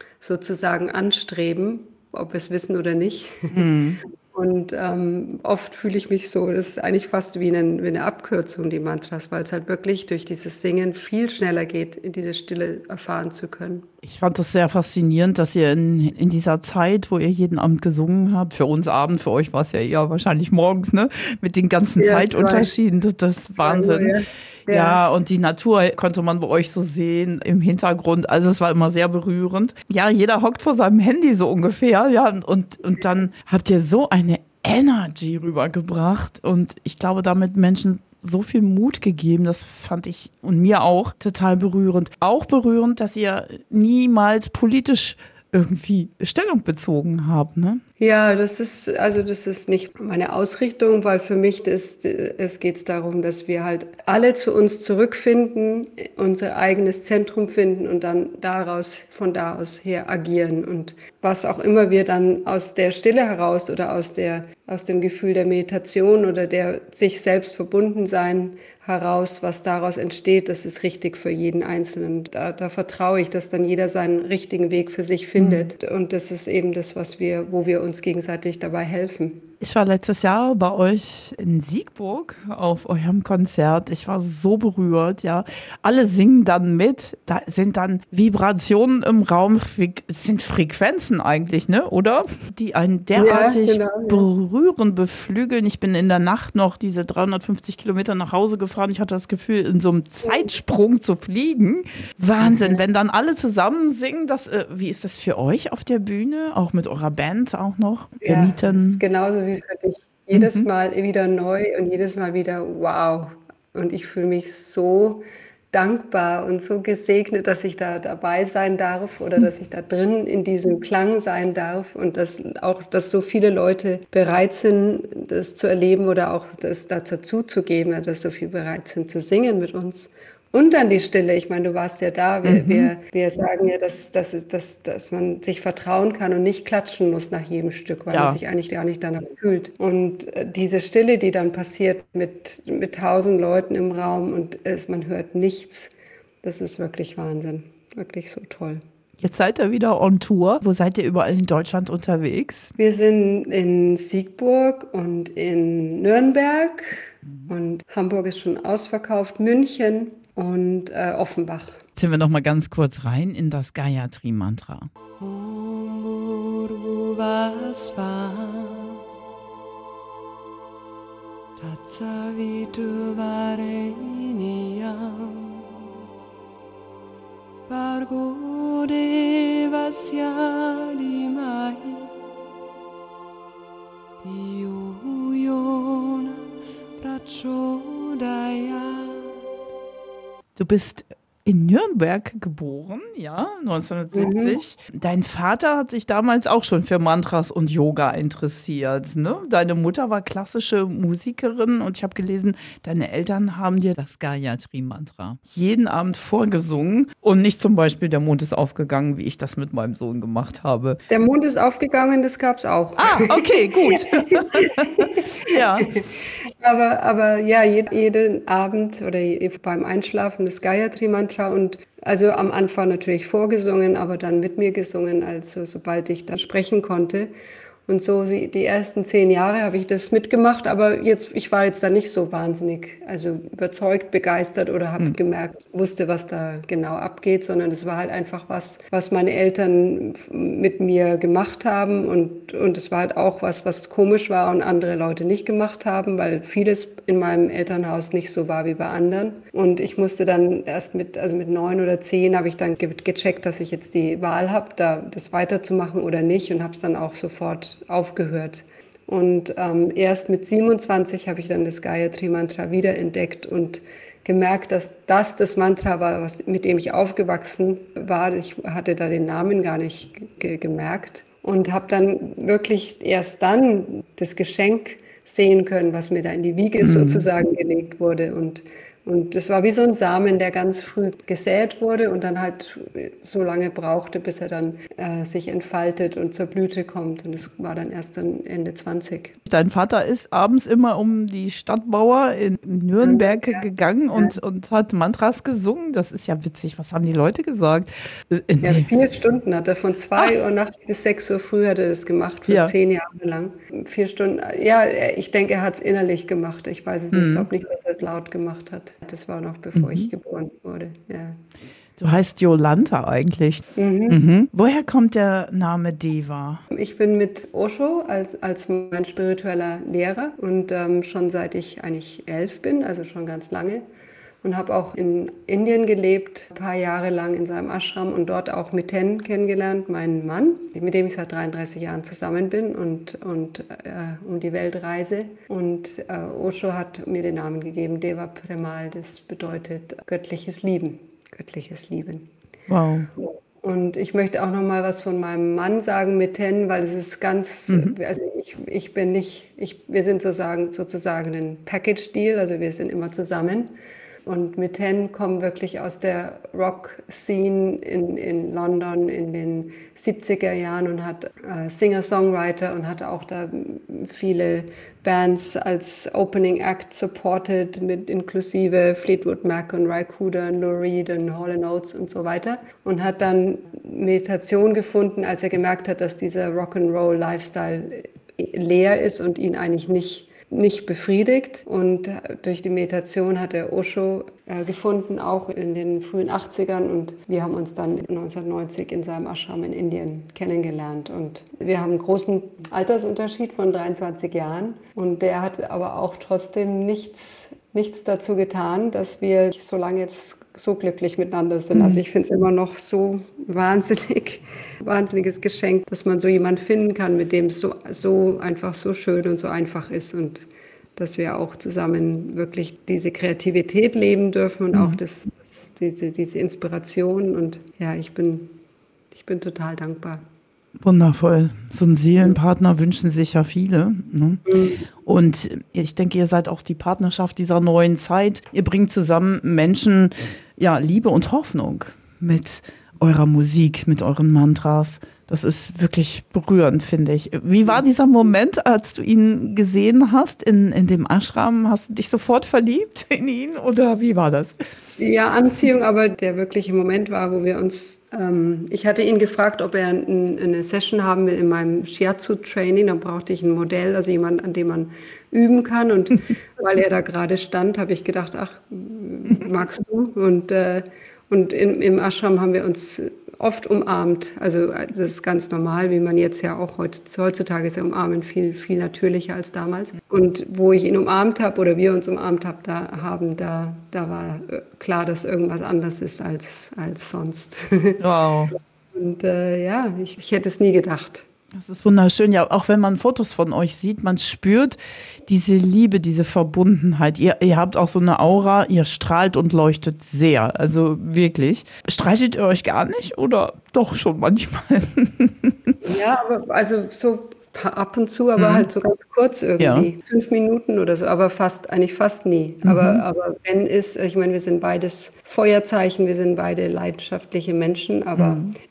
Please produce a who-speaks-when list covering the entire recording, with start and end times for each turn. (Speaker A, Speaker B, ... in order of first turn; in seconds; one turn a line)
Speaker A: 0.2-3.6
Speaker B: 3.5-4.0
Speaker A: 4.3-13.9
Speaker B: 14.0-24.1
Speaker A: 22.0-22.7
Speaker A: 23.6-25.0
Speaker B: 24.7-47.8
Speaker A: 48.0-79.5
Speaker B: 75.4-75.7
Speaker B: 79.6-109.0
Speaker A: 93.1-94.3
Speaker A: 100.2-100.5
Speaker A: 102.4-102.8
Speaker A: 108.2-145.9
Speaker B: 110.3-110.7
Speaker B: 132.4-132.9
Speaker B: 138.1-138.4
Speaker A: 146.4-148.8
Speaker B: 149.2-152.7
Speaker A: 152.8-161.8
Speaker B: 161.9-164.9
Speaker A: 165.2-169.0
Speaker A: 171.6-175.7
Speaker A: 177.7-182.1
Speaker A: 184.2-189.3
Speaker B: 190.6-211.0
Speaker A: 194.1-194.6
Speaker A: 211.1-227.3
Speaker B: 213.0-215.9
Speaker A: 227.9-289.4
Speaker B: 276.8-277.3
Speaker B: 289.4-298.9
Speaker A: 293.0-294.4
Speaker A: 298.6-311.4
Speaker B: 302.5-302.7
Speaker B: 307.1-307.5
Speaker B: 309.7-310.1
Speaker B: 312.0-316.6
Speaker A: 313.8-314.2
Speaker A: 316.7-323.8
Speaker A: 324.4-342.3
Speaker B: 342.7-343.1
Speaker A: 343.2-353.7
Speaker B: 347.7-347.9
Speaker A: 354.2-410.4
Speaker B: 401.7-402.0
Speaker A: 411.0-418.5
Speaker B: 414.7-415.0
Speaker A: 419.1-420.2
Speaker B: 420.8-424.4
Speaker A: 424.4-424.9
Speaker B: 425.0-444.7
Speaker A: 445.0-478.0
Speaker B: 478.0-478.5
Speaker A: 478.9-481.2
Speaker B: 481.5-495.8
Speaker A: 495.8-508.4
Speaker B: 498.4-498.7
Speaker B: 499.6-499.9
Speaker B: 502.6-503.0
Speaker B: 508.1-508.5